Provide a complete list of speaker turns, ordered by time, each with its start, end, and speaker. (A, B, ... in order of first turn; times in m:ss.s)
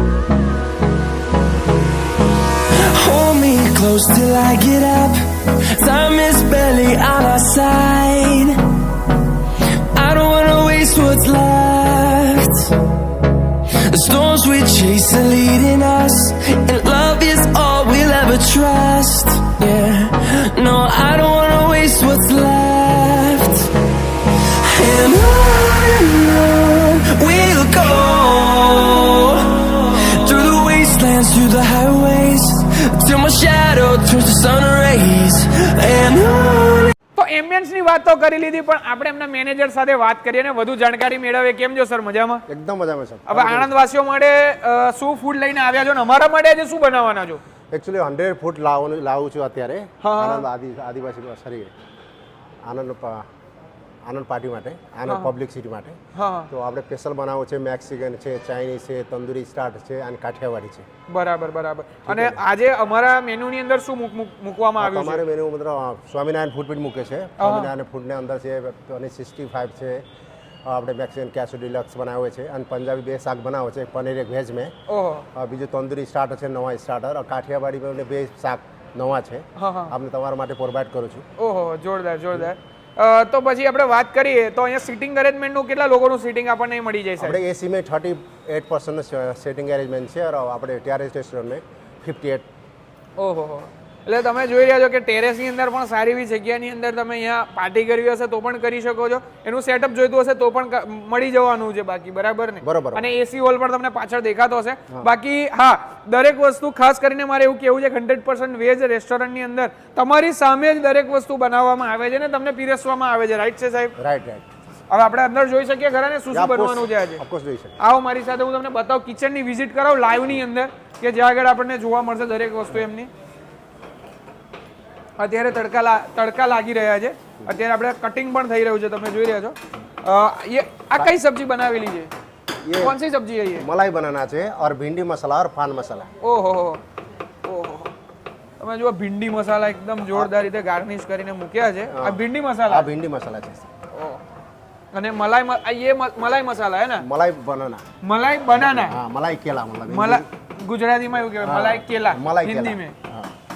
0:02.9-0:08.6 A
0:09.9-0:12.7 A
0:13.9-0:23.7 A
0:24.6-0:36.9 A
0:37.2-0:42.4 B
0:42.5-0:43.7 C
0:43.3-0:47.4 B
0:47.7-0:51.7 C
0:50.0-0:50.4 B
0:52.6-0:53.2 C
0:54.0-0:56.0 C
0:55.1-0:55.3 B
0:56.1-0:56.5 B
0:56.5-1:00.9 C
1:01.1-1:05.2 B
1:02.1-1:02.4 C
1:04.8-1:10.0 C
1:07.4-1:07.7 B
1:10.7-1:14.7 C
1:14.9-1:15.3 B
1:15.3-1:21.2 C
1:19.6-1:19.9 B
1:21.4-1:27.4 B
1:27.2-1:32.5 C
1:33.2-1:54.0 B
1:42.6-1:43.0 C
1:54.0-1:54.4 C
1:54.9-1:57.2 B
1:56.3-1:57.8 C
1:57.8-2:03.1 B
2:05.2-2:12.1 B
2:12.6-2:13.0 C
2:12.8-2:13.6 B
2:13.6-2:16.1 C
2:16.2-2:16.8 B
2:17.4-2:17.9 B
2:18.6-2:22.9 B
2:21.9-2:23.7 C
2:23.9-2:24.2 B
2:24.9-2:27.0 B
2:27.0-2:27.8 C
2:28.0-2:29.0 B
2:28.6-2:30.3 C
2:29.9-2:33.0 B
2:31.4-2:33.3 C